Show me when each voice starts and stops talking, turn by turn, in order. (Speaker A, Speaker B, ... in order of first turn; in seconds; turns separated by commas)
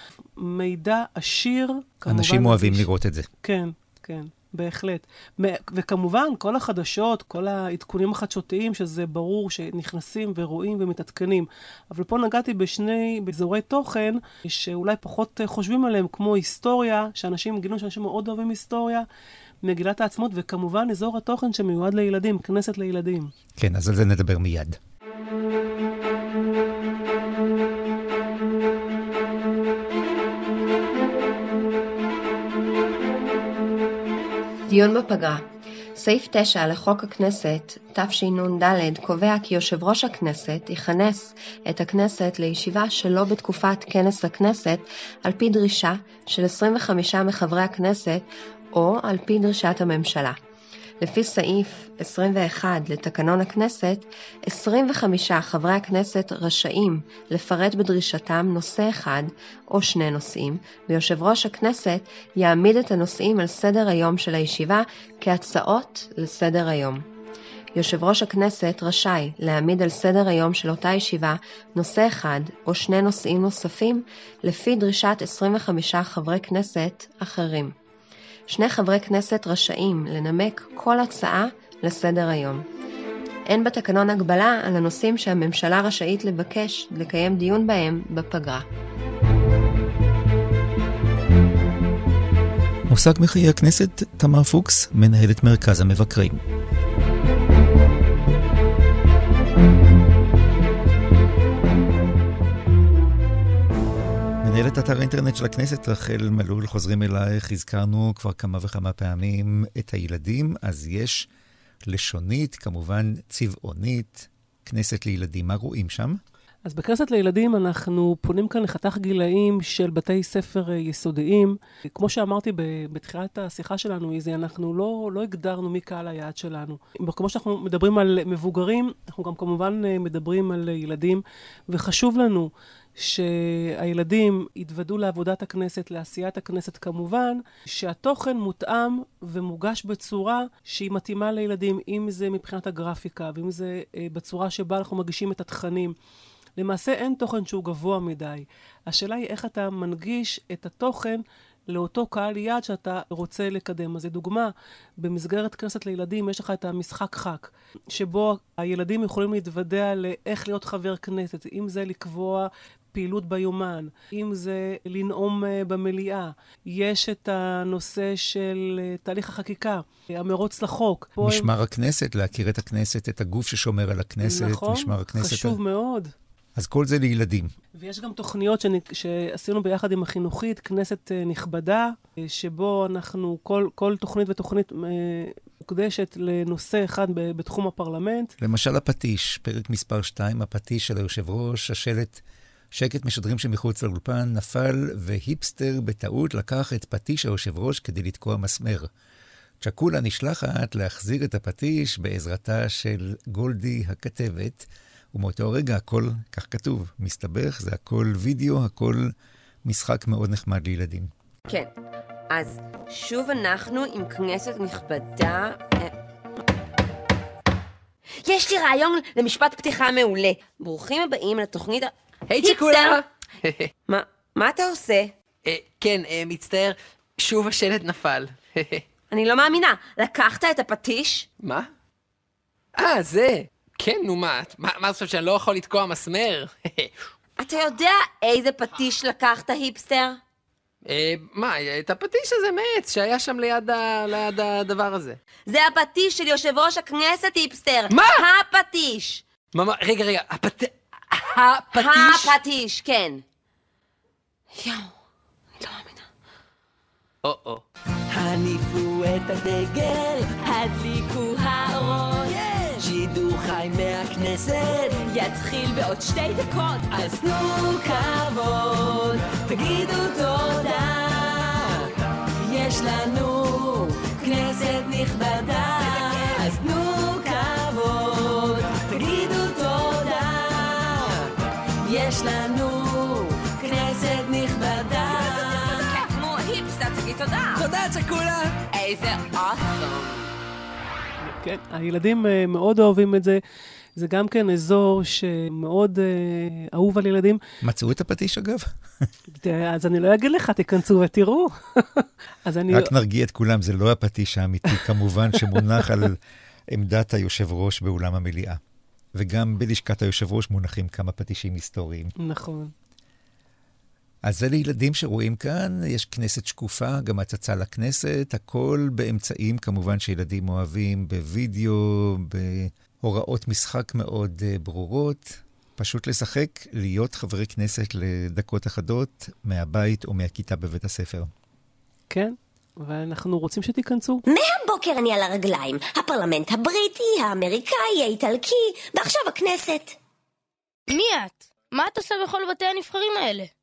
Speaker A: 0.4-2.9, Speaker B: 2.0-3.3, Speaker A: 3.4-19.1, Speaker A: 19.6-23.3, Speaker B: 23.6-24.8, Speaker C: 34.7-50.4, Speaker C: 51.0-67.0, Speaker C: 67.7-77.7, Speaker C: 78.5-82.7, Speaker C: 83.5-88.7, Speaker B: 92.9-96.4, Speaker B: 104.4-111.3, Speaker B: 111.8-116.2, Speaker A: 116.6-145.9, Speaker A: 146.6-171.5, Speaker B: 171.2-175.6, Speaker A: 174.2-176.1, Speaker B: 176.5-177.5, Speaker A: 177.8-188.3, Speaker B: 188.4-198.9, Speaker B: 199.6-209.1, Speaker B: 209.6-211.1, Speaker D: 212.3-215.9, Speaker D: 218.2-222.9, Speaker E: 222.3-223.7, Speaker D: 223.8-225.1, Speaker E: 225.4-228.8, Speaker D: 229.1-231.3, Speaker E: 231.4-231.7, Speaker E: 232.7-236.9, Speaker D: 237.4-240.2, Speaker E: 240.8-245.2, Speaker D: 245.5-249.2, Speaker E: 247.9-248.2, Speaker E: 249.5-250.7, Speaker E: 251.5-252.3, Speaker D: 251.7-253.2, Speaker F: 251.8-252.1, Speaker D: 254.6-254.9, Speaker D: 255.6-256.0, Speaker E: 257.2-257.6, Speaker F: 258.1-271.9, Speaker F: 272.4-281.2, Speaker F: 281.8-285.9, Speaker D: 285.3-287.6, Speaker E: 287.6-288.6, Speaker D: 288.8-289.8, Speaker A: 291.2-293.4, Speaker A: 294.0-297.4, Speaker B: 297.6-299.1, Speaker A: 299.3-302.9, Speaker B: 302.7-306.2, Speaker B: 306.7-308.6, Speaker B: 309.1-312.1, Speaker A: 312.2-312.7, Speaker B: 314.2-331.3, Speaker A: 332.1-334.2, Speaker G: 334.3-339.9, Speaker H: 340.9-343.5